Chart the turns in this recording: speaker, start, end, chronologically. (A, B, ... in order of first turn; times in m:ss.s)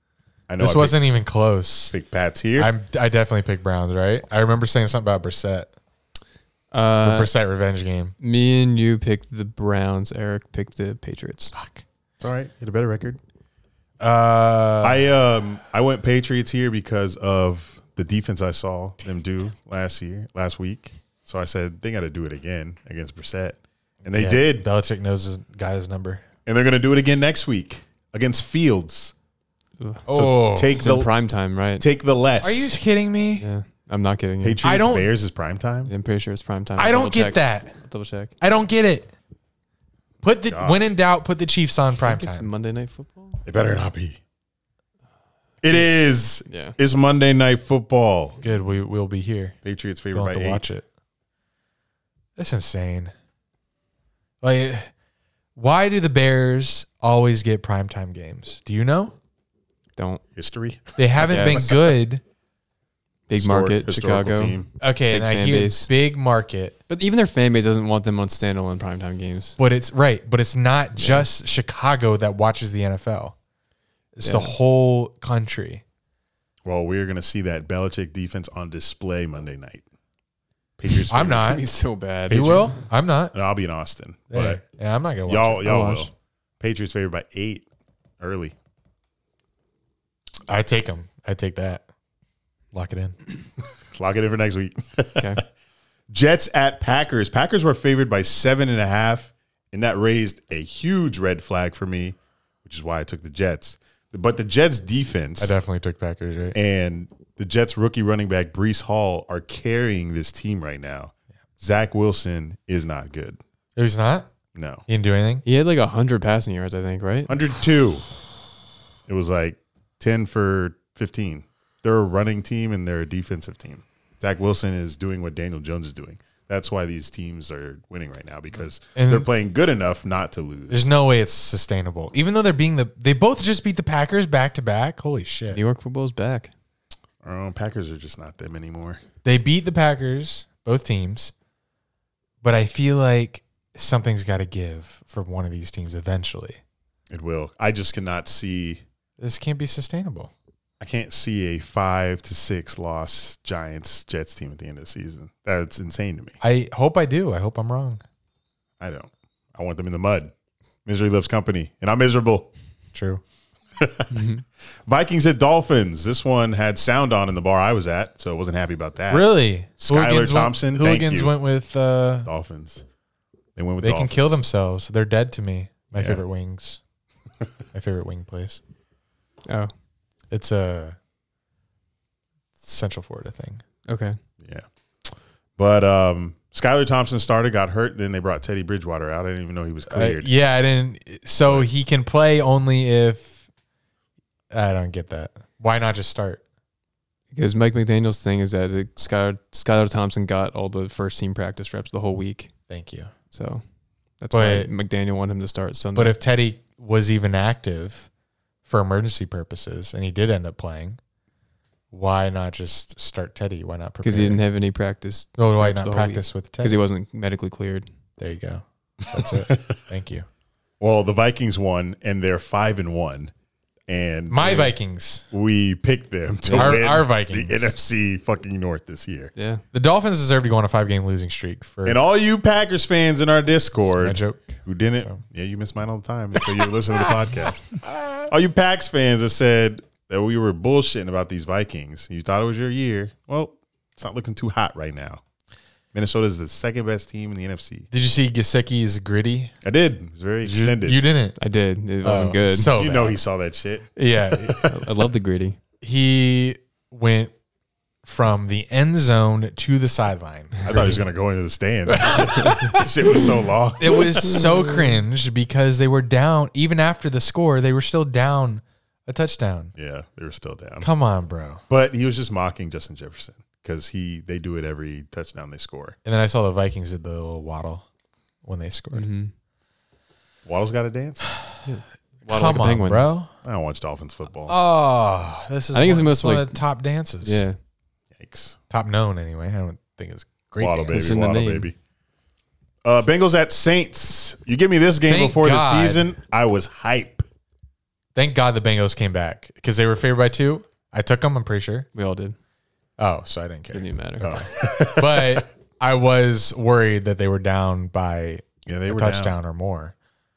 0:00.5-0:01.0 A
0:00.6-0:02.0 B
0:01.9-0:02.7 A
0:02.6-0:05.7 B
0:06.7-0:07.3 C
0:07.0-0:08.1 B
0:08.2-0:11.5 C
0:11.5-0:11.8 B
0:12.2-0:13.2 A
0:14.0-0:15.0 B
0:14.8-0:24.6 A
0:24.2-0:26.2 B
0:26.4-0:29.1 A
0:29.8-0:30.1 C
0:30.1-0:30.8 B
0:30.1-0:31.1 A
0:30.7-0:31.8 C
0:31.8-0:32.7 A
0:32.4-0:33.4 B
0:33.4-0:34.6 C
0:34.4-0:35.9 A
0:34.6-0:35.1 B
0:35.9-0:38.3 C
0:36.8-0:37.8 B
0:38.4-0:39.1 B
0:40.2-0:42.5 B
0:40.5-0:40.9 A
0:42.0-0:43.4 C
0:43.4-0:44.2 A
0:45.6-0:48.4 A
0:46.4-0:46.8 C
0:48.4-0:49.6 B
0:49.6-0:50.6 A
0:50.1-0:50.8 B
0:52.4-0:53.1 B
0:54.4-0:54.9 B
0:55.6-0:59.1 B
1:00.0-1:00.2 C
1:00.4-1:01.7 A
1:01.0-1:02.2 B
1:01.2-1:01.8 C
1:03.3-1:05.9 C
1:03.4-1:04.7 A
1:04.8-1:06.8 B
1:06.9-1:09.6 C
1:09.6-1:13.3 B
1:11.0-1:11.2 C
1:14.2-1:15.8 B
1:14.2-1:14.5 C
1:16.6-1:19.8 A
1:20.8-1:21.6 A
1:21.1-1:21.6 B
1:21.2-1:22.8 C
1:22.3-1:22.6 A
1:22.3-1:23.3 B
1:23.3-1:24.6 A
1:24.3-1:25.7 B
1:25.2-1:27.7 A
1:25.6-1:26.1 C
1:28.2-1:28.5 A
1:30.5-1:31.8 B
1:32.7-1:33.2 B
1:33.9-1:35.4 A
1:35.2-1:35.4 C
1:36.1-1:45.6 A
1:45.4-1:46.6 B
1:46.5-1:53.4 A
1:53.8-1:54.3 B
1:54.5-1:54.8 A
1:54.9-1:55.4 B
1:55.4-1:57.3 C
1:57.3-1:58.0 A
1:59.1-2:10.8 A
2:08.9-2:09.3 B
2:10.7-2:15.6 B
2:15.5-2:16.5 C
2:17.2-2:19.0 A
2:19.2-2:21.3 B
2:22.4-2:26.6 B
2:27.1-2:28.8 A
2:29.2-2:30.3 B
2:30.8-2:36.4 A
2:36.4-2:38.0 B
2:38.8-2:40.3 A
2:40.8-2:42.5 A
2:42.9-2:43.2 B
2:43.8-2:44.3 A
2:44.1-2:44.4 C
2:44.8-2:51.4 A
2:49.1-2:52.3 B
2:52.2-2:52.8 A
2:53.6-2:54.4 A
2:53.8-2:56.8 B
2:55.9-2:56.2 A
2:57.7-2:58.6 B
3:00.3-3:01.0 B
3:02.6-3:03.6 B
3:03.9-3:04.2 C
3:04.4-3:10.3 A
3:09.9-3:13.4 B
3:14.5-3:16.4 B
3:17.3-3:22.5 C
3:22.7-3:23.1 B
3:23.3-3:23.6 C
3:24.2-3:26.2 C
3:24.3-3:24.7 B
3:25.9-3:28.1 B
3:28.6-3:31.0 B
3:31.9-3:34.4 B
3:34.0-3:37.8 C
3:35.4-3:36.8 B
3:38.2-3:40.2 B
3:39.2-3:39.7 A
3:40.8-3:43.3 A
3:43.9-3:44.7 A
3:44.3-3:45.3 B
3:45.3-3:49.3 A
3:46.4-3:46.9 C
3:46.5-3:47.8 B
3:49.4-3:49.6 C
3:49.7-3:52.0 B
3:51.8-4:05.2 A
3:53.8-3:55.2 B
4:05.9-4:07.9 A
4:07.9-4:09.5 B
4:09.6-4:11.0 A
4:10.4-4:11.4 B
4:11.4-4:12.7 C
4:12.0-4:13.2 B
4:12.7-4:13.9 A
4:14.0-4:14.7 B
4:14.6-4:15.6 C
4:15.8-4:17.3 B
4:18.0-4:21.0 B
4:20.6-4:24.3 A
4:21.9-4:22.8 B
4:23.8-4:29.7 B
4:24.3-4:24.7 C
4:29.8-4:30.9 A
4:30.8-4:31.6 B
4:31.7-4:36.0 A
4:36.0-4:37.8 B
4:38.4-4:39.1 B
4:38.9-4:39.3 C
4:40.4-4:41.2 A
4:41.6-4:43.1 C
4:42.2-4:43.3 B
4:43.4-4:44.5 A
4:44.5-4:47.4 B
4:45.7-4:46.6 C
4:47.2-4:47.6 C
4:48.1-4:48.6 A
4:48.7-4:51.2 B
4:50.6-4:51.7 A
4:50.9-4:51.7 C
4:52.8-4:57.2 A
4:55.0-4:56.1 B
4:58.1-5:01.9 B
5:01.9-5:02.4 C
5:03.0-5:09.9 B
5:03.7-5:04.4 C
5:04.2-5:05.4 A
5:08.6-5:09.3 A